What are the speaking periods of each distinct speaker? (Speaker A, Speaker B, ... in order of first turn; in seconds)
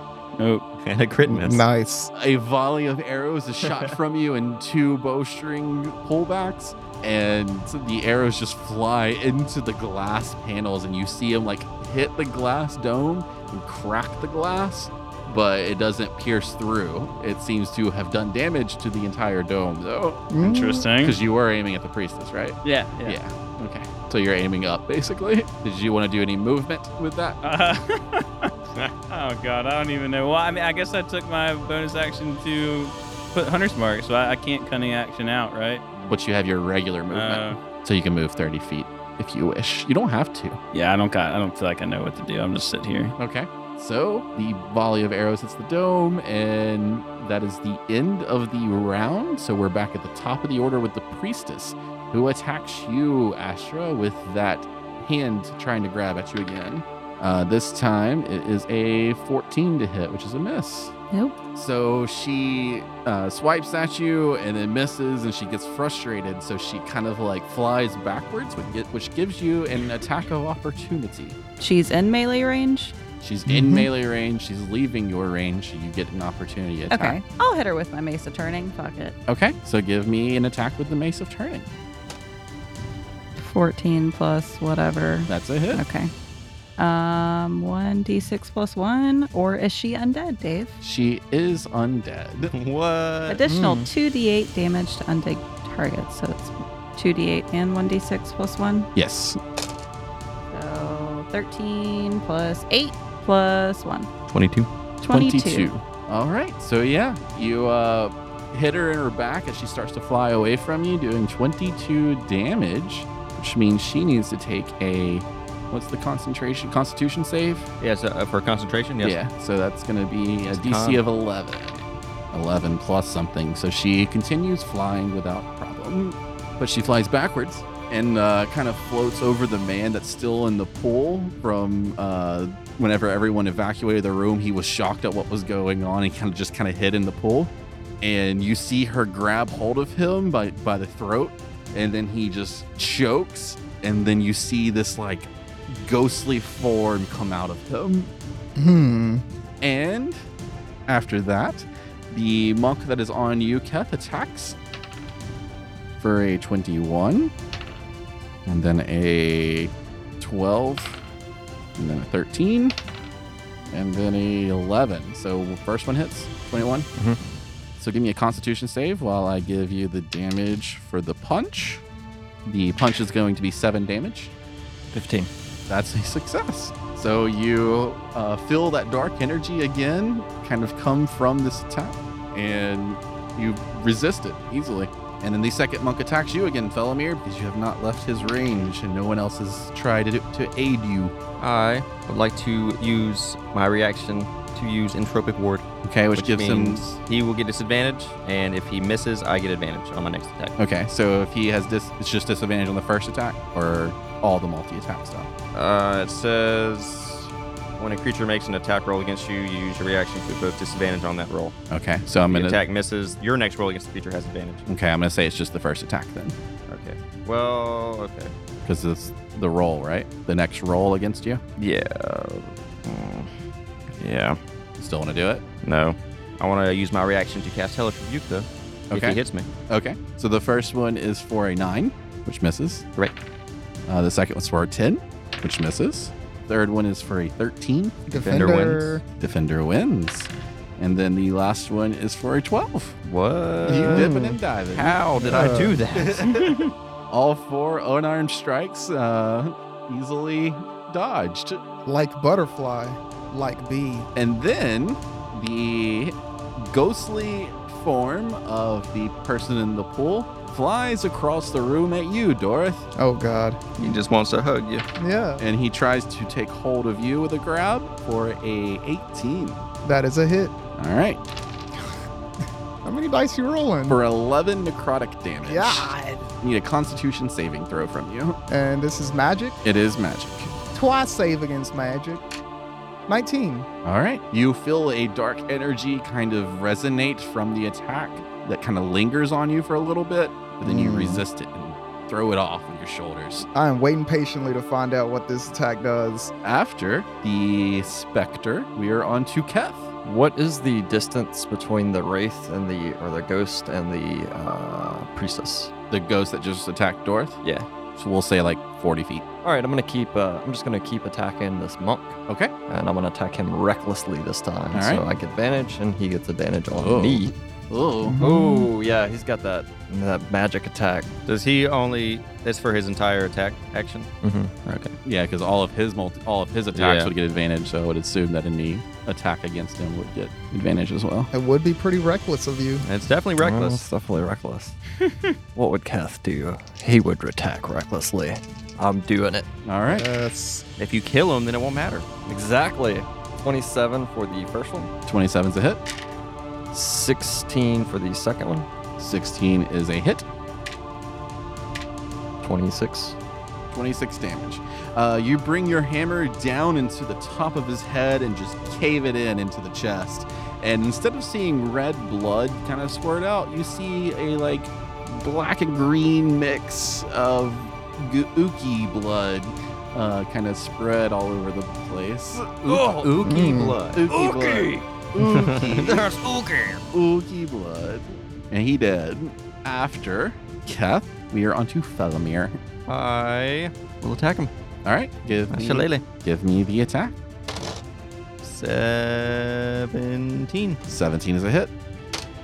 Speaker A: 0.4-0.6, 20.4-21.2, 22.6-23.2, 27.4-35.8, 37.1-37.6, 40.7-43.1
Speaker B: 0.8-1.7, 3.6-4.0, 92.5-93.4, 104.3-104.7, 117.8-119.2, 120.5-121.0, 191.4-200.5, 205.5-211.5, 212.2-214.6, 216.7-218.3, 221.6-223.3, 224.0-224.4, 225.6-229.5, 238.1-239.0, 243.0-246.4, 263.8-264.8, 321.2-324.1, 324.6-324.9, 326.7-327.1, 332.8-333.8, 340.8-342.1, 373.0-374.0, 375.2-376.8, 382.9-384.5, 385.5-386.0, 388.4-390.8
Speaker C: 1.2-2.1, 20.3-20.9, 73.5-73.9, 93.5-93.9, 148.6-149.2, 238.1-239.0, 243.7-244.2, 245.1-245.8, 251.8-254.1, 262.9-264.0, 265.0-265.4, 269.8-270.5, 272.8-274.0, 275.4-276.3, 278.5-279.6, 280.7-282.2, 283.1-283.7, 290.6-291.2, 293.5-296.3, 318.0-318.7, 331.3-332.8, 339.8-340.6, 373.2-373.8
Speaker D: 2.1-20.3, 21.0-27.4, 35.9-40.6, 43.2-60.9, 61.5-71.4, 73.2-77.2, 79.3-81.7, 85.3-85.8, 90.8-92.5, 98.9-99.4, 105.1-117.7, 119.0-148.1, 149.6-150.2, 150.9-154.6, 156.0-157.3, 158.4-161.0, 161.8-162.7, 163.7-166.9, 167.8-171.8, 172.4-174.3, 175.7-191.1, 195.8-196.9, 200.6-205.3, 211.7-212.6, 214.7-216.3, 218.6-221.4, 224.8-225.4, 228.9-229.2, 229.7-232.8, 233.9-238.1, 239.2-243.0, 243.8-251.6, 254.1-262.9, 265.4-269.6, 270.8-271.2, 273.9-278.4, 279.6-280.5, 283.8-293.5, 296.4-299.9, 305.9-307.4, 307.9-309.2, 312.3-312.5, 314.7-315.0, 316.7-318.2, 325.0-331.3, 339.6-340.1, 345.1-345.8, 349.0-350.2, 353.7-376.1, 376.9-382.6, 384.8-387.1, 390.9-391.7
Speaker E: 61.1-61.4, 71.6-73.0, 76.9-79.1, 83.3-86.1, 86.8-90.8, 93.3-98.9, 100.5-104.1, 105.0-105.7
Speaker F: 174.9-175.3, 300.0-305.7, 307.4-307.7, 309.4-317.3, 318.2-321.1, 324.2-324.5, 333.4-334.8, 335.5-339.5, 342.3-344.9, 346.7-348.7, 352.4-353.2, 372.7-373.1, 374.1-374.9, 375.9-376.6